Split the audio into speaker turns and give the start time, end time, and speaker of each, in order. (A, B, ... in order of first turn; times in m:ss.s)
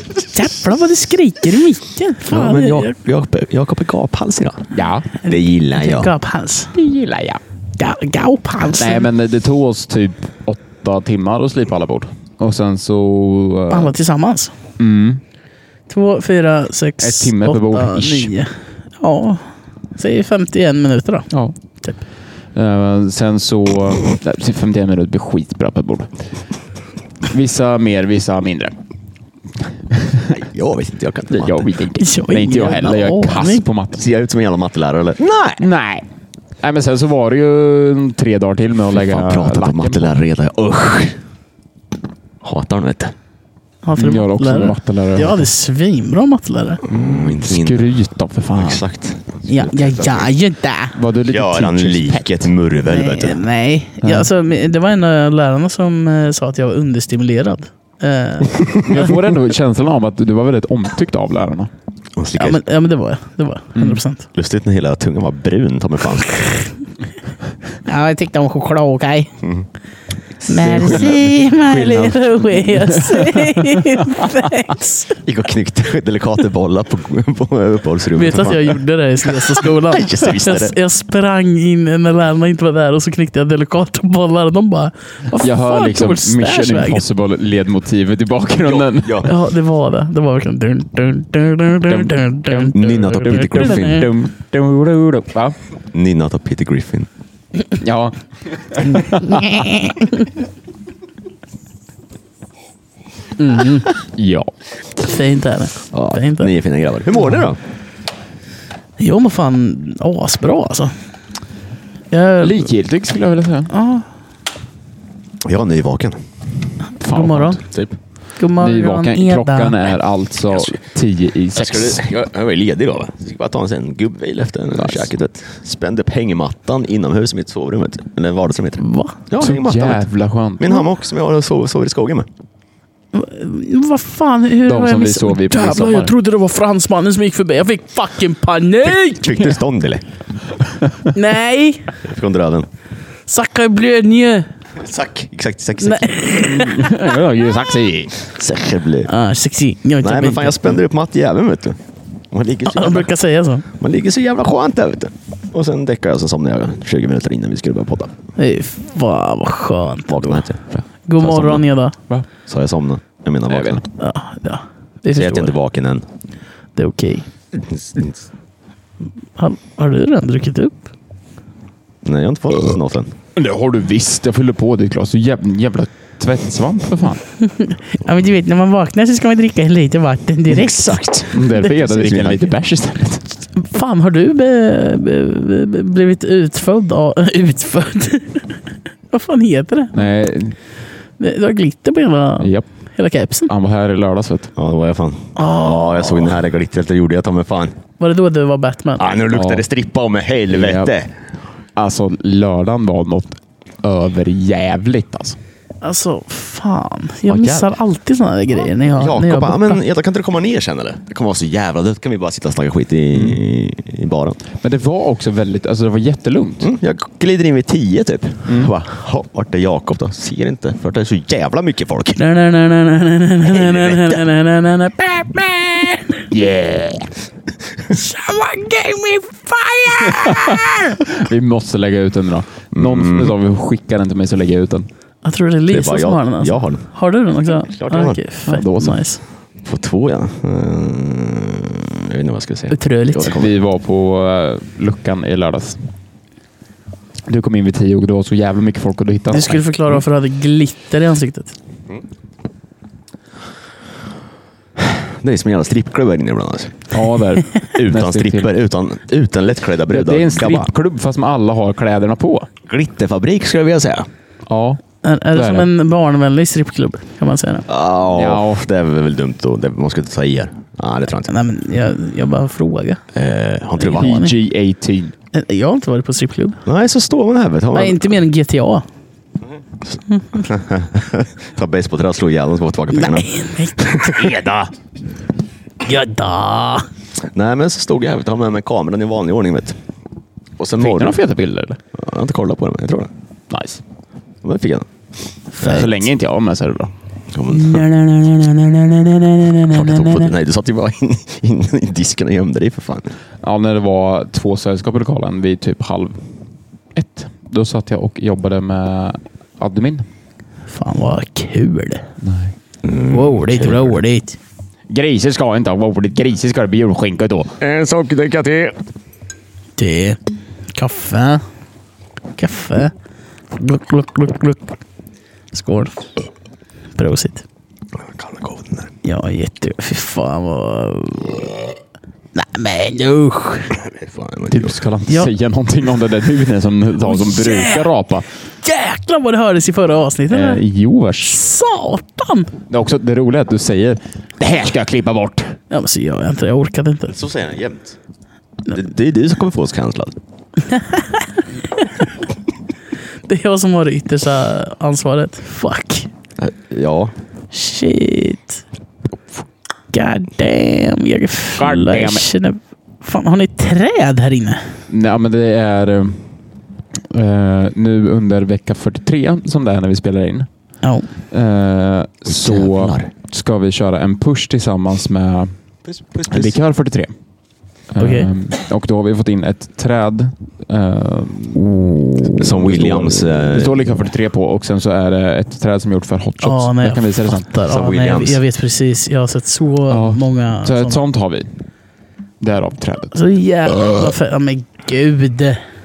0:00.3-0:02.9 A
0:02.2-0:04.7 B
0:04.7-0:05.0 C
0:05.2-0:06.7 A
0:05.2-0:06.1 B
0:06.7-0:07.4 C
0:07.8-0:09.1 A
0:08.8-0:13.9 C
0:13.7-0:14.5 A
0:14.8-0:15.2 C
0:15.9-0:21.3 A
0:17.0-0:18.3 C
0:22.5-0:26.1 C
0:27.3-0:28.7 C
0:29.9-0:30.3 C
0:30.3-0:31.7 B
0:31.3-0:34.0 C
0:32.0-0:33.6 A
0:33.9-0:35.6 B
0:35.6-0:36.0 C
0:36.6-0:40.2 C
0:38.9-0:41.2 B
0:42.4-0:43.1 B
0:43.8-0:46.8 A
0:43.9-0:45.5 C
0:46.8-0:47.9 B
0:46.9-0:48.8 C
0:48.5-0:50.3 B
0:49.5-0:51.0 A
0:50.9-0:52.4 C
0:51.3-0:53.4 B
0:52.9-0:59.1 A
0:54.0-0:54.3 C
0:58.8-1:01.7 C
1:02.2-1:02.6 B
1:02.4-1:04.3 A
1:03.8-1:04.0 C
1:04.3-1:06.6 B
1:07.8-1:09.3 A
1:09.4-1:09.7 B
1:10.4-1:11.3 B
1:10.5-1:15.2 A
1:10.6-1:13.8 C
1:15.2-1:20.7 B
1:18.1-1:27.0 A
1:25.4-1:29.3 C
1:28.6-1:29.3 B
1:29.2-1:34.1 A
1:31.9-1:35.6 C
1:32.7-1:34.1 B
1:35.9-1:37.1 B
1:37.8-1:39.8 C
1:38.9-1:40.3 A
1:43.4-1:43.9 A
1:44.2-1:44.5 C
1:45.0-1:46.5 A
1:45.9-1:47.6 B
1:49.0-1:50.9 A
1:52.1-1:52.7 A
1:52.4-1:53.7 C
1:53.7-1:54.0 A
1:55.4-1:56.2 B
1:57.0-1:57.6 C
1:57.1-1:57.6 A
1:57.7-1:57.9 B
1:58.4-1:59.8 A
1:58.6-2:02.0 C
2:01.5-2:10.0 B
2:04.7-2:05.1 C
2:08.8-2:09.2 A
2:09.4-2:10.9 C
2:10.6-2:12.3 B
2:13.1-2:19.5 A
2:14.6-2:16.1 C
2:19.0-2:20.0 B
2:21.1-2:22.0 A
2:22.0-2:22.7 B
2:23.3-2:24.5 A
2:24.8-2:26.3 B
2:25.8-2:27.1 A
2:26.4-2:28.2 C
2:28.2-2:29.1 B
2:29.0-2:30.8 A
2:30.0-2:31.8 B
2:32.3-2:33.1 B
2:32.6-2:33.6 A
2:33.7-2:38.1 B
2:38.4-2:40.5 A
2:40.1-2:41.6 B
2:41.0-2:42.0 A
2:42.4-2:43.8 B
2:43.5-2:43.8 C
2:44.0-2:45.5 A
2:45.1-2:46.0 B
2:46.8-2:47.3 A
2:47.6-2:48.2 B
2:49.4-2:50.8 A
2:52.0-2:53.1 B
2:53.4-2:57.2 C
2:57.4-3:01.7 A
3:00.5-3:02.5 B
3:01.3-3:03.4 C
3:03.5-3:08.6 A
3:09.1-3:10.0 A
3:09.9-3:10.6 C
3:11.2-3:13.5 A
3:12.4-3:12.7 C
3:13.5-3:14.5 C
3:14.6-3:17.8 B
3:15.4-3:16.3 A
3:18.0-3:19.2 A
3:19.0-3:21.1 B
3:19.3-3:19.6 C
3:20.5-3:20.9 C
3:21.8-3:25.4 C
3:25.8-3:29.8 A
3:27.3-3:27.7 B
3:29.0-3:34.4 B
3:33.1-3:33.4 C
3:34.6-3:36.7 C
3:36.6-3:42.2 B
3:38.5-3:38.7 C
3:42.2-3:46.3 A
3:43.4-3:44.2 B
3:46.3-3:47.1 C
3:47.9-3:51.0 A
3:50.1-3:54.9 C
3:52.7-3:53.3 B
3:55.2-3:59.2 A
3:55.7-3:56.8 B
3:57.7-3:58.2 B
3:58.4-3:59.0 C
3:59.6-4:03.5 B
4:02.7-4:03.4 A
4:03.3-4:05.9 C
4:07.3-4:09.6 C
4:09.3-4:11.5 A
4:14.8-4:16.9 B
4:16.9-4:18.5 C
4:17.7-4:20.7 B
4:19.9-4:22.5 C
4:22.7-4:24.1 B
4:24.5-4:24.8 C
4:25.0-4:27.7 A
4:25.3-4:25.7 C
4:27.7-4:31.3 B
4:28.1-4:28.6 C
4:31.3-4:33.0 A
4:33.1-4:34.2 B
4:33.8-4:34.4 A
4:33.9-4:35.1 C
4:35.3-4:36.6 A
4:36.6-4:38.1 B
4:37.7-4:38.8 A
4:39.9-4:44.4 B
4:42.9-4:44.2 A
4:44.1-4:44.7 C
4:45.8-4:46.9 A
4:47.3-4:49.8 B
4:50.6-4:51.2 B
4:50.8-4:51.8 C
4:51.9-4:53.1 B
4:53.5-4:53.8 C
4:54.4-4:54.9 B
4:55.6-4:55.9 A
4:55.6-4:55.9 B
4:55.6-4:56.9 C
4:57.3-4:57.9 B
4:57.5-5:00.3 C
4:59.7-5:03.1 B
5:03.4-5:06.2 C
5:06.9-5:10.0 C
5:10.7-5:12.0 A
5:12.2-5:12.5 C
5:12.8-5:13.9 B
5:13.0-5:14.4 A
5:14.9-5:17.6 C
5:17.6-5:18.8 B
5:19.8-5:20.2 A
5:20.7-5:21.4 A
5:22.4-5:22.9 A
5:23.5-5:24.8 A
5:25.5-5:26.1 A
5:27.0-5:27.4 A
5:28.0-5:28.9 B
5:29.0-5:31.6 A
5:32.3-5:33.8 A
5:33.7-5:34.8 B
5:34.5-5:38.2 C
5:35.1-5:35.3 A
5:37.0-5:37.9 A
5:38.6-5:40.6 A
5:40.3-5:41.4 C
5:41.2-5:42.5 A
5:42.7-5:45.6 C
5:45.7-5:47.2 A
5:47.1-5:48.0 B
5:48.7-5:50.2 B
5:50.6-5:52.1 A
5:53.3-5:56.1 A
5:56.4-5:57.1 B
5:57.5-5:58.6 A
5:59.9-6:04.7 A
6:01.6-6:02.3 C
6:04.9-6:06.2 C
6:07.1-6:10.5 C
6:10.8-6:11.1 A
6:11.3-6:15.5 C
6:12.2-6:13.1 B
6:15.9-6:16.6 B
6:16.3-6:17.1 C
6:17.9-6:27.5 C
6:18.0-6:18.3 A
6:22.4-6:24.0 B
6:26.4-6:31.0 A
6:27.6-6:28.4 B
6:29.9-6:31.5 C
6:32.4-6:33.1 C
6:33.1-6:35.6 A